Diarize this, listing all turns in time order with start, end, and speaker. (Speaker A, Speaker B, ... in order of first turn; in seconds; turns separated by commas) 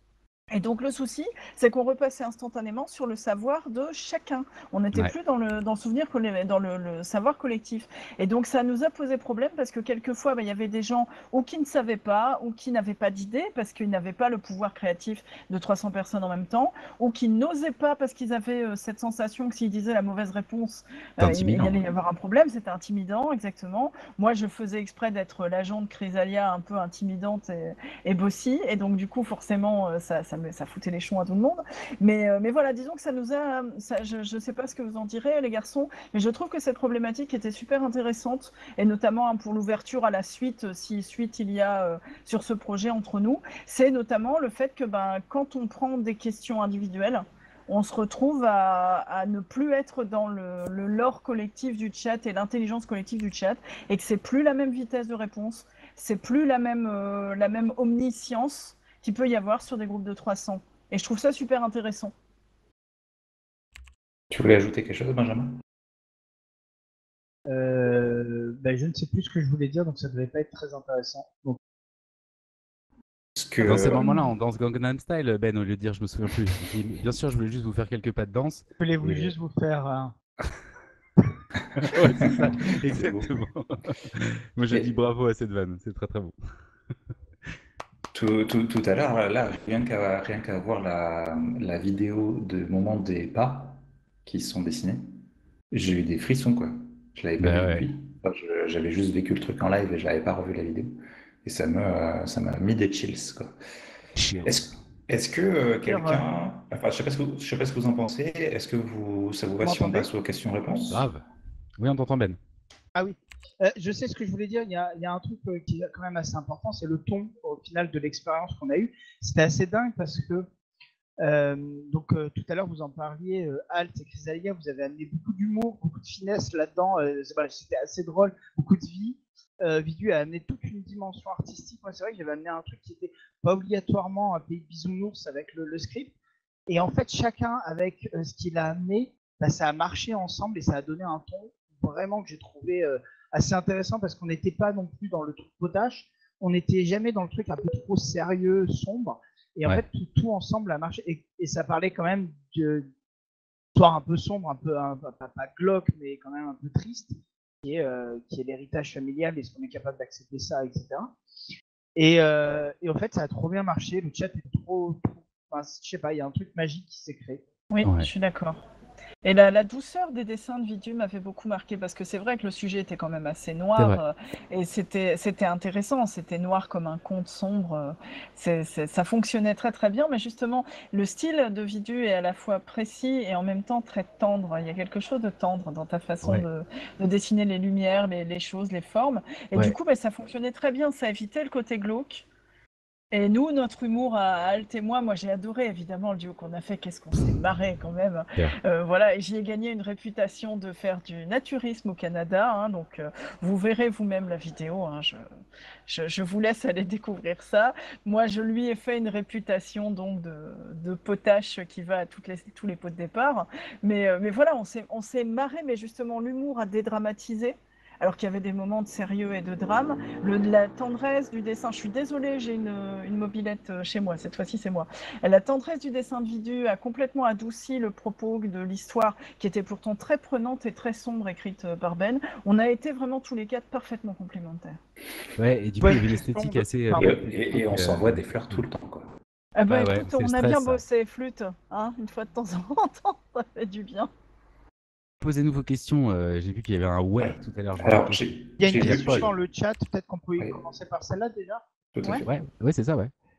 Speaker A: 0.5-62.1, Speaker B: 21.2-21.7, Speaker C: 64.3-65.6, Speaker D: 67.5-71.6, Speaker C: 73.3-74.0, Speaker B: 73.6-79.3, Speaker D: 73.8-74.2, Speaker D: 78.8-80.1, Speaker B: 81.8-86.3, Speaker C: 81.8-83.3, Speaker C: 88.1-95.0, Speaker C: 95.7-100.9, Speaker B: 97.4-97.9, Speaker C: 101.4-103.5, Speaker B: 104.2-104.6, Speaker C: 104.4-111.0, Speaker D: 105.8-106.2, Speaker D: 109.6-110.1, Speaker B: 110.9-111.2, Speaker B: 111.8-112.4, Speaker D: 112.9-120.5, Speaker D: 121.2-136.1, Speaker D: 136.7-152.9, Speaker D: 153.7-161.1, Speaker D: 161.9-167.4, Speaker A: 167.7-168.6, Speaker B: 167.8-168.1, Speaker A: 169.2-192.2, Speaker A: 193.1-205.2, Speaker A: 205.9-234.8, Speaker B: 235.4-238.6, Speaker D: 235.8-237.2, Speaker C: 237.0-239.1, Speaker A: 239.6-244.1, Speaker B: 239.7-240.8, Speaker B: 245.2-249.3, Speaker C: 247.2-249.3, Speaker D: 248.6-251.6, Speaker C: 251.9-252.3, Speaker B: 252.2-253.1